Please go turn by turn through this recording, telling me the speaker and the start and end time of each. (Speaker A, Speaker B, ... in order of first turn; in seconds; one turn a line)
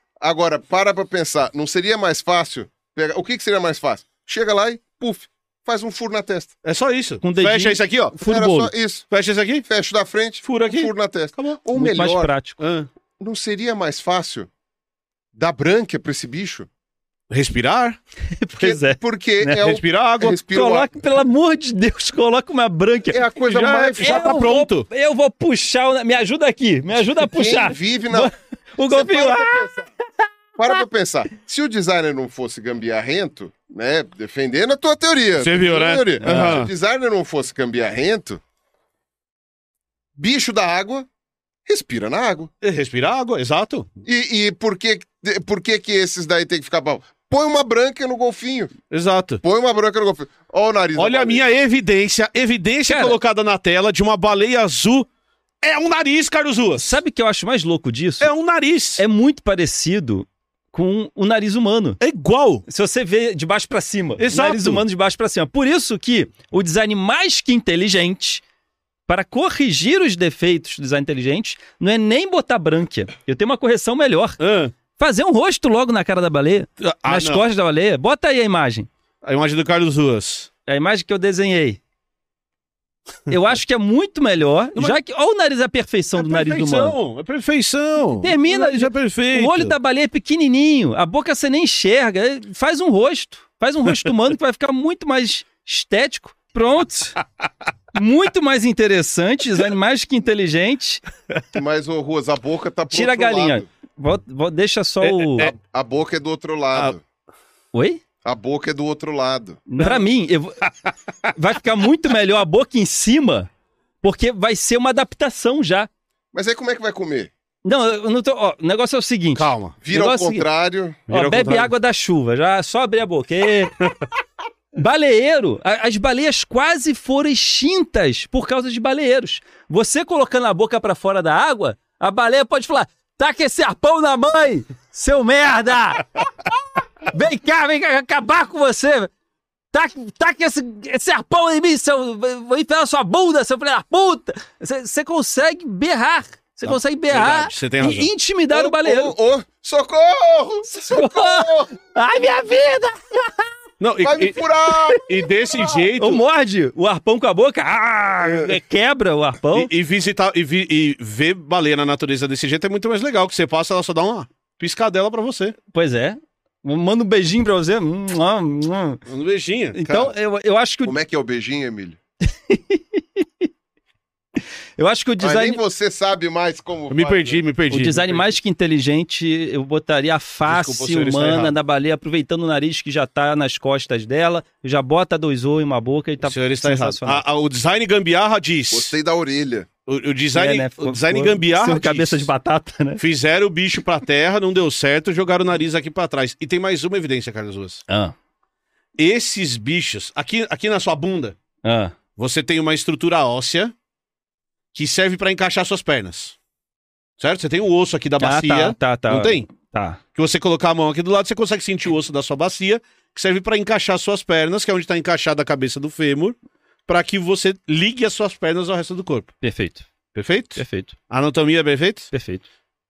Speaker A: 0.2-6.5
Speaker B: 6.6-8.2
Speaker C: 7.2-8.7
Speaker A: 8.2-9.1
Speaker B: 9.1-9.6
Speaker A: 9.6-12.3
Speaker B: 10.4-11.6
Speaker C: 11.7-12.6
Speaker B: 12.6-12.9
Speaker A: 13.2-14.5
Speaker A: 15.3-16.7
Speaker B: 17.3-18.0
Speaker C: 18.3-19.6
Speaker A: 18.6-20.9
Speaker B: 19.6-20.4
Speaker C: 20.4-23.2
Speaker A: 23.1-24.4
Speaker B: 23.5-24.9
Speaker C: 24.0-29.7
Speaker A: 27.2-28.3
Speaker A: 28.9-29.9
Speaker A: 30.6-38.4
Speaker B: 35.4-36.7
Speaker C: 36.2-36.6
Speaker A: 40.2-41.1
Speaker A: 41.7-42.5
Speaker B: 42.6-43.9
Speaker A: 44.0-48.7
Speaker B: 48.9-49.4
Speaker A: 49.4-51.5
Speaker B: 51.0-55.1
Speaker C: 52.9-53.2
Speaker B: 55.6-57.0
Speaker C: 56.8-58.3
Speaker B: 58.2-59.0
Speaker C: 59.0-62.0
Speaker B: 62.0-62.6
Speaker C: 62.7-68.4
Speaker B: 64.2-64.8
Speaker C: 69.1-74.4
Speaker B: 74.4-74.7
Speaker C: 75.0-78.9
Speaker B: 76.8-77.5
Speaker B: 79.2-80.5
Speaker C: 80.7-81.8
Speaker C: 83.3-87.0
Speaker B: 86.2-89.8
Speaker C: 88.2-97.2
Speaker C: 97.9-101.0
Speaker A: 101.5-103.7
Speaker C: 102.9-105.5
Speaker B: 105.0-105.5
Speaker A: 105.4-107.0
Speaker C: 107.7-108.0
Speaker A: 108.2-109.6
Speaker C: 109.7-110.6
Speaker B: 109.8-110.0
Speaker C: 111.3-113.5
Speaker C: 114.0-115.9
Speaker A: 116.3-117.3
Speaker C: 117.7-120.5
Speaker B: 119.4-119.8
Speaker A: 119.8-121.0
Speaker B: 121.1-121.7
Speaker C: 121.1-123.7
Speaker C: 124.8-136.3
Speaker C: 137.1-139.1
Speaker C: 139.7-149.1
Speaker B: 146.7-148.1
Speaker A: 148.5-151.8
Speaker C: 150.7-153.5
Speaker B: 153.8-154.4
Speaker A: 154.0-155.8
Speaker B: 154.9-156.2
Speaker C: 156.0-159.7
Speaker A: 158.2-158.5
Speaker B: 159.5-165.6
Speaker C: 165.7-169.0
Speaker B: 169.1-170.1
Speaker C: 169.8-171.0
Speaker A: 170.8-172.0
Speaker C: 172.5-173.5
Speaker C: 174.8-175.6
Speaker A: 175.2-177.4
Speaker B: 176.9-178.3
Speaker C: 177.7-187.2
Speaker B: 180.5-181.6
Speaker B: 186.2-188.9
Speaker A: 188.7-189.7
Speaker B: 189.9-192.3
Speaker C: 190.3-193.0
Speaker B: 193.0-197.8
Speaker C: 197.9-198.1
Speaker B: 199.0-201.4
Speaker C: 201.6-202.0
Speaker B: 202.2-203.7
Speaker B: 204.7-206.4
Speaker B: 207.2-209.5
Speaker C: 208.2-210.0
Speaker B: 210.1-219.3
Speaker C: 219.4-219.9
Speaker B: 220.1-222.1
Speaker C: 220.6-220.9
Speaker C: 222.1-222.4